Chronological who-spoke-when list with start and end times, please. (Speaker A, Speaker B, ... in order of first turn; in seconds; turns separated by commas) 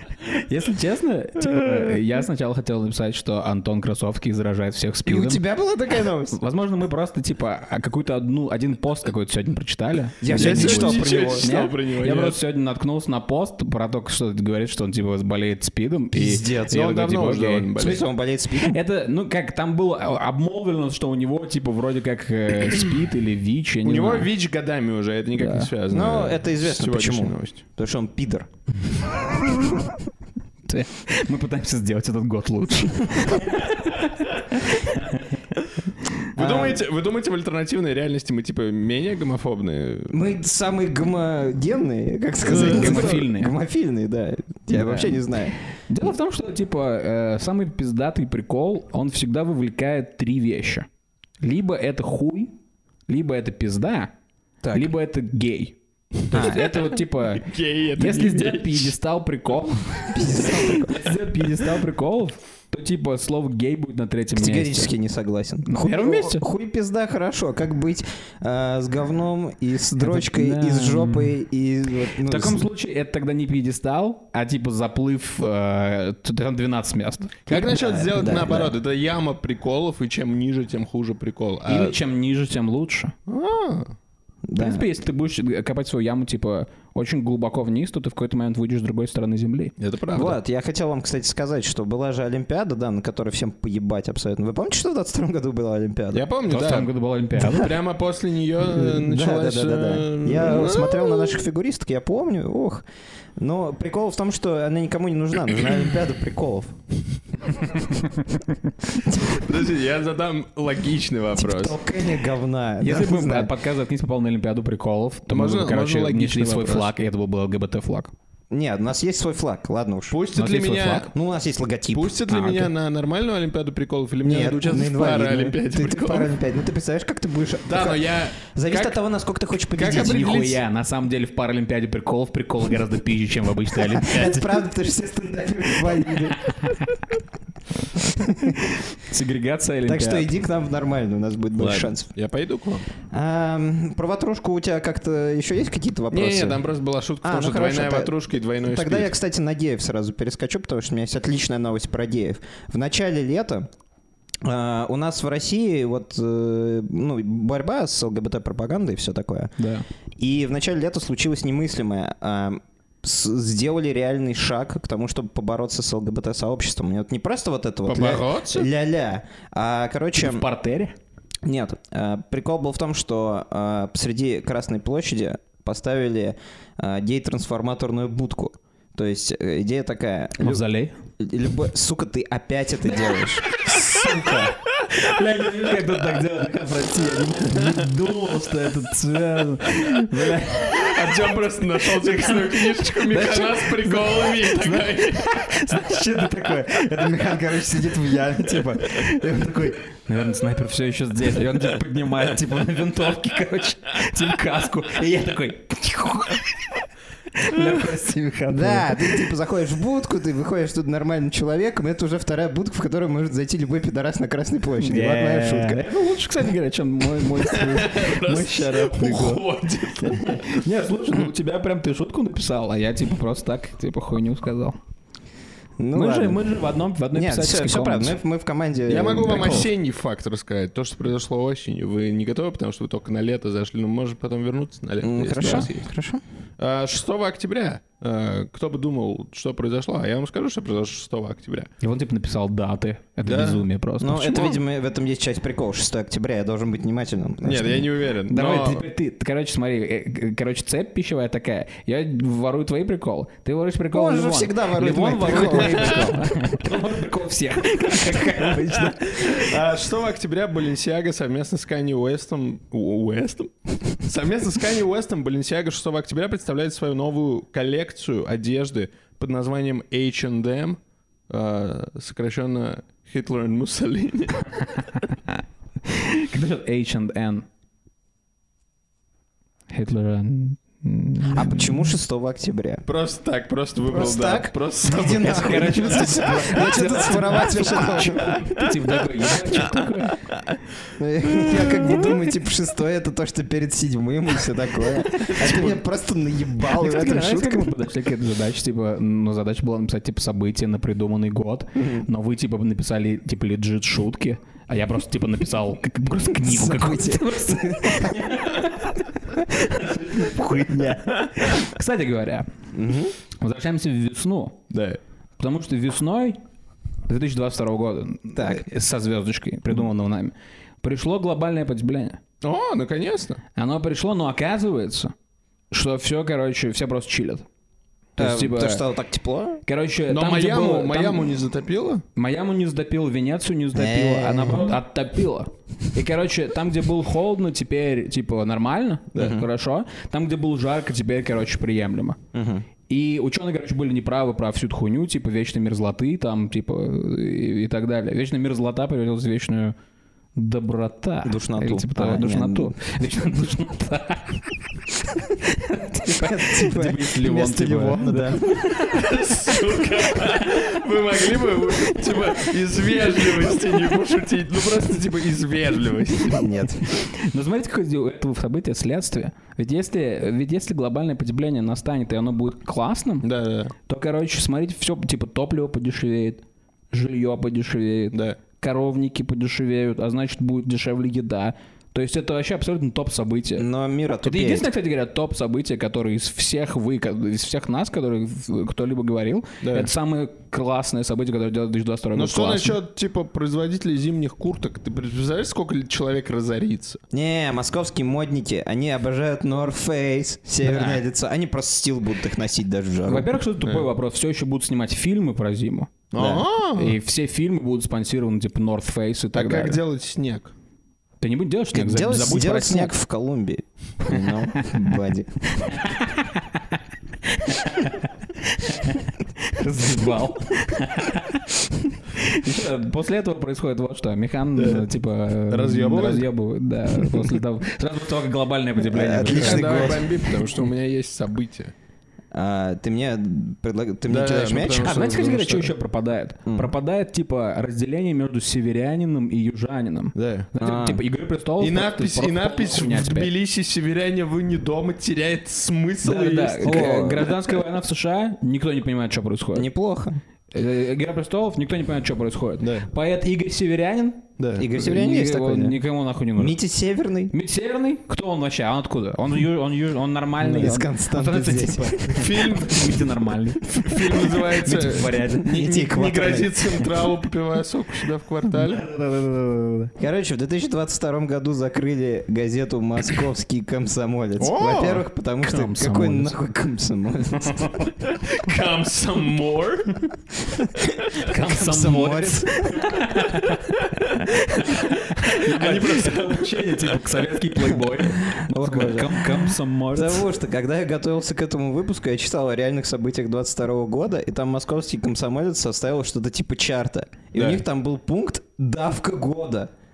Speaker A: 0.3-5.4, Speaker B: 5.0-6.4, Speaker A: 6.3-17.7, Speaker B: 10.2-11.5, Speaker C: 10.3-12.4, Speaker B: 16.1-16.8, Speaker C: 16.7-18.1, Speaker B: 17.8-18.8, Speaker A: 18.5-24.3, Speaker C: 23.8-27.6, Speaker A: 25.4-25.7, Speaker B: 25.9-28.5, Speaker A: 30.6-35.4, Speaker C: 36.3-40.2, Speaker B: 36.4-36.8, Speaker B: 40.1-45.5, Speaker C: 42.4-43.2, Speaker A: 42.5-43.5, Speaker A: 44.7-50.9, Speaker A: 51.4-52.5, Speaker A: 53.1-54.1, Speaker B: 54.6-54.9, Speaker A: 54.7-64.9, Speaker B: 56.3-56.7, Speaker C: 56.4-58.9, Speaker B: 60.1-61.1, Speaker B: 64.3-72.7, Speaker A: 65.7-66.4, Speaker A: 70.0-71.3, Speaker A: 72.2-77.7, Speaker C: 77.5-82.0, Speaker B: 77.5-78.7, Speaker A: 81.7-83.1, Speaker C: 83.3-83.9, Speaker B: 84.5-84.8, Speaker A: 84.5-89.7, Speaker C: 89.8-90.4, Speaker B: 90.1-96.2, Speaker C: 96.1-101.4, Speaker A: 96.5-97.7, Speaker B: 98.7-102.8, Speaker B: 103.4-106.7, Speaker A: 107.7-108.4, Speaker B: 109.0-109.4, Speaker C: 109.3-111.8, Speaker B: 111.3-113.5, Speaker A: 112.8-118.1, Speaker C: 115.3-116.9, Speaker B: 118.5-120.2, Speaker C: 120.1-121.1, Speaker A: 120.3-121.1, Speaker B: 121.1-122.2, Speaker C: 121.9-126.3, Speaker A: 122.3-122.7, Speaker B: 124.2-130.3, Speaker C: 127.7-129.0, Speaker C: 129.7-130.6, Speaker A: 129.8-134.6, Speaker B: 133.9-136.4, Speaker A: 136.5-136.9, Speaker B: 138.0-138.6, Speaker A: 138.5-140.3, Speaker B: 139.8-142.1, Speaker C: 141.6-142.9, Speaker B: 143.1-146.6, Speaker C: 146.1-149.1, Speaker B: 147.2-153.7, Speaker B: 154.4-159.5, Speaker A: 159.6-159.8, Speaker B: 160.2-170.4, Speaker C: 167.8-168.7, Speaker A: 170.2-170.9, Speaker B: 171.4-180.6, Speaker A: 180.4-180.9, Speaker B: 181.2-184.5, Speaker A: 183.7-190.9, Speaker C: 190.7-195.4, Speaker A: 191.9-197.8, Speaker B: 196.5-199.7, Speaker A: 198.4-206.8, Speaker A: 207.3-209.2, Speaker B: 208.5-215.8, Speaker A: 214.8-219.4, Speaker C: 217.3-220.6, Speaker A: 220.0-224.8, Speaker B: 225.8-226.5, Speaker A: 225.9-228.2, Speaker B: 227.1-229.7, Speaker C: 228.9-235.8, Speaker A: 229.3-229.7, Speaker B: 235.0-236.2, Speaker C: 236.6-241.7, Speaker A: 241.8-244.6, Speaker C: 243.2-243.6, Speaker B: 244.0-247.9, Speaker C: 247.4-248.8, Speaker A: 248.3-259.6, Speaker B: 253.9-256.2, Speaker C: 255.2-256.1, Speaker C: 259.1-274.5, Speaker A: 274.9-277.4, Speaker A: 279.7-281.8, Speaker B: 281.3-282.9, Speaker C: 282.9-286.0, Speaker B: 283.9-288.3, Speaker A: 285.2-290.2, Speaker B: 291.0-297.7, Speaker C: 295.3-295.8, Speaker A: 296.7-312.5, Speaker B: 301.8-302.1, Speaker B: 306.4-308.3, Speaker B: 312.7-313.1, Speaker A: 313.4-314.6, Speaker C: 314.7-315.0, Speaker A: 315.4-316.4, Speaker A: 317.1-322.2, Speaker B: 318.3-318.6, Speaker C: 322.4-323.4, Speaker A: 323.6-325.1, Speaker A: 325.7-327.4, Speaker A: 328.2-328.9, Speaker B: 328.2-329.6, Speaker A: 329.6-331.3, Speaker C: 330.1-332.0, Speaker A: 332.1-342.2, Speaker B: 333.7-334.8, Speaker B: 339.1-339.4, Speaker B: 342.3-342.7, Speaker A: 342.9-349.8, Speaker A: 350.3-359.0, Speaker B: 351.2-352.8, Speaker B: 356.0-358.8, Speaker C: 358.8-366.5, Speaker A: 362.1-362.4, Speaker B: 366.3-366.8, Speaker A: 366.9-373.3, Speaker C: 373.2-373.7, Speaker A: 373.9-383.6, Speaker C: 378.1-378.4, Speaker B: 383.6-384.7, Speaker A: 384.2-392.8, Speaker C: 389.6-389.9, Speaker C: 392.1-397.0, Speaker B: 397.1-403.3, Speaker A: 400.6-401.0, Speaker A: 403.1-406.0, Speaker C: 406.1-407.0, Speaker B: 406.1-406.4, Speaker A: 406.7-409.8, Speaker C: 409.3-410.5, Speaker A: 411.2-412.9, Speaker B: 411.7-415.8, Speaker A: 414.1-414.8, Speaker A: 415.7-430.0, Speaker C: 424.6-424.9, Speaker C: 425.5-426.3, Speaker B: 428.8-430.1, Speaker C: 429.3-431.7, Speaker B: 432.3-435.1, Speaker C: 434.1-435.7, Speaker A: 434.8-443.3, Speaker C: 440.1-440.5, Speaker B: 440.6-441.0, Speaker C: 441.6-446.9, Speaker A: 446.0-449.7, Speaker B: 446.6-447.3, Speaker B: 449.5-450.2, Speaker A: 450.5-456.6, Speaker C: 452.6-452.9, Speaker C: 454.4-454.7, Speaker B: 454.6-455.8, Speaker B: 456.4-457.3, Speaker A: 457.3-465.6, Speaker B: 460.4-462.3, Speaker C: 462.1-462.9, Speaker C: 463.7-468.8, Speaker B: 465.4-466.9, Speaker A: 468.5-469.9, Speaker B: 470.0-477.9, Speaker C: 474.4-475.0, Speaker A: 475.4-476.3, Speaker A: 477.4-477.9, Speaker C: 478.1-479.9, Speaker A: 481.1-490.3, Speaker B: 481.4-482.9, Speaker C: 485.4-487.0, Speaker B: 487.7-499.7, Speaker C: 497.3-497.6